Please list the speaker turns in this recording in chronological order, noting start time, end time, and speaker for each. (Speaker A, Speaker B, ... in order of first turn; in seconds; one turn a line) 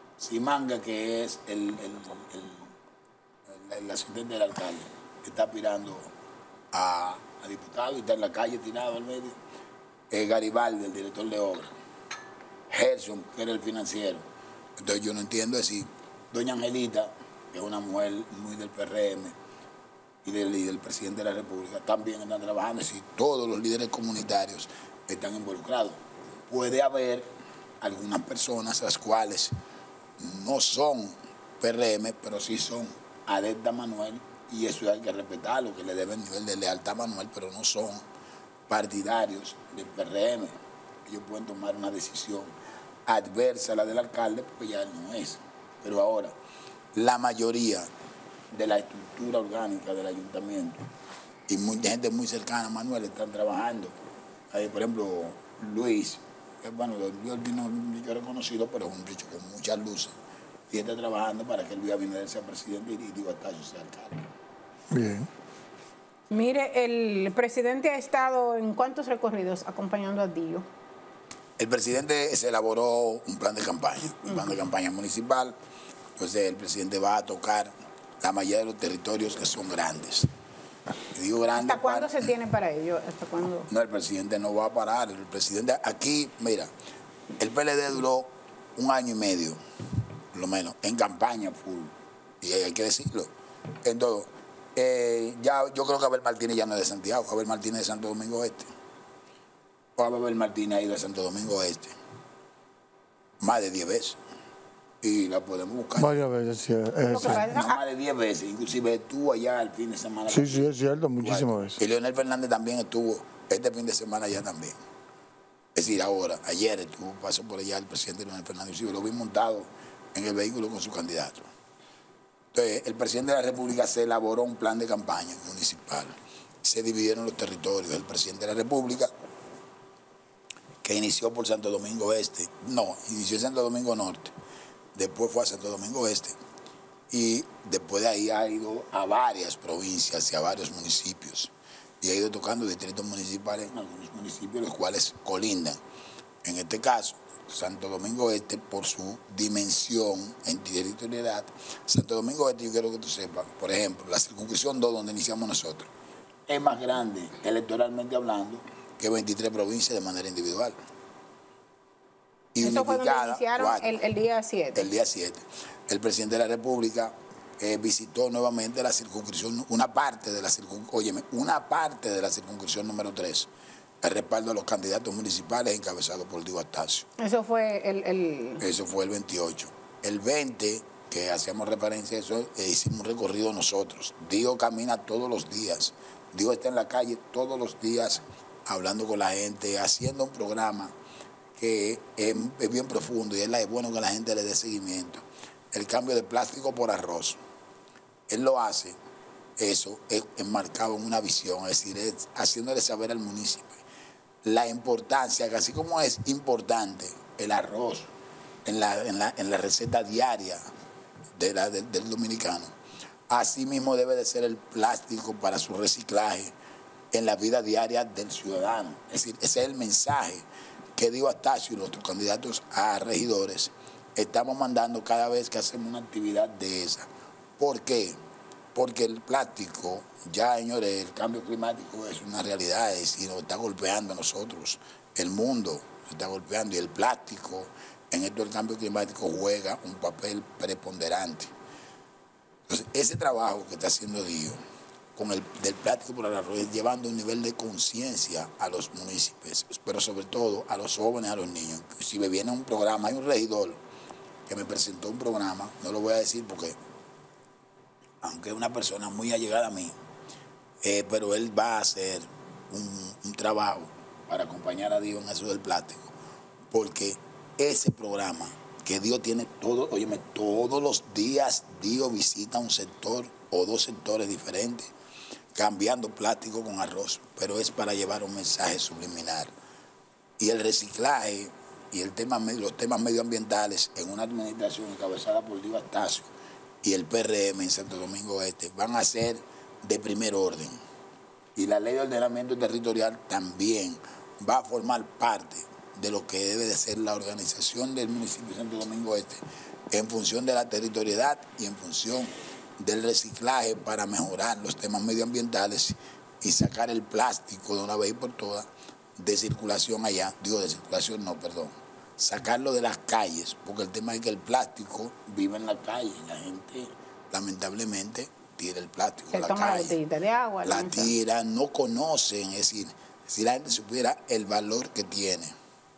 Speaker A: 0.2-2.7
Speaker A: 3.5-6.1
Speaker A: 6.7-9.4
Speaker A: 10.1-11.7
Speaker A: 12.7-14.2
Speaker A: 14.8-19.4
Speaker A: 20.2-27.3
Speaker A: 27.8-29.5
Speaker A: 30.2-38.0
Speaker A: 38.7-42.5
Speaker A: 43.0-46.4
Speaker A: 46.9-47.9
Speaker A: 48.5-50.9
Speaker A: 51.5-53.9
Speaker A: 54.5-60.1
Speaker A: 60.7-64.3
Speaker B: 64.9-65.3
Speaker C: 66.3-70.7
Speaker A: 71.6-75.6
Speaker A: 76.2-80.3
Speaker A: 81.1-82.2
Speaker C: 81.5-83.7
Speaker A: 83.7-86.7
Speaker A: 87.4-89.6
Speaker A: 90.3-93.3
Speaker A: 93.8-98.7
Speaker A: 100.0-102.0
Speaker A: 103.4-104.2
Speaker A: 105.0-106.1
Speaker B: 106.0-107.5
Speaker C: 107.0-107.8
Speaker A: 107.2-114.8
Speaker B: 110.3-111.8
Speaker A: 115.7-121.5
Speaker A: 122.5-129.1
Speaker A: 130.8-134.3
Speaker A: 134.9-136.3
Speaker A: 137.1-145.8
Speaker A: 146.4-155.9
Speaker A: 156.5-160.8
Speaker A: 162.5-164.0
Speaker C: 162.6-164.9
Speaker A: 164.7-173.5
Speaker A: 174.0-177.1
Speaker C: 177.2-178.6
Speaker A: 178.6-190.9
Speaker A: 191.6-197.4
Speaker A: 198.3-199.0
Speaker A: 199.6-203.8
Speaker A: 204.4-208.1
Speaker A: 208.6-210.6
Speaker A: 211.3-212.7
Speaker A: 213.3-216.5
Speaker A: 217.1-228.2
Speaker A: 228.7-241.5
Speaker A: 242.7-244.6
Speaker A: 245.2-253.8
Speaker A: 254.5-256.8
Speaker A: 258.2-259.9
Speaker A: 260.8-266.1
Speaker A: 266.7-274.9
Speaker A: 275.5-279.5
Speaker A: 280.4-290.8
Speaker A: 291.6-320.0
Speaker C: 319.3-321.1
Speaker A: 320.6-325.5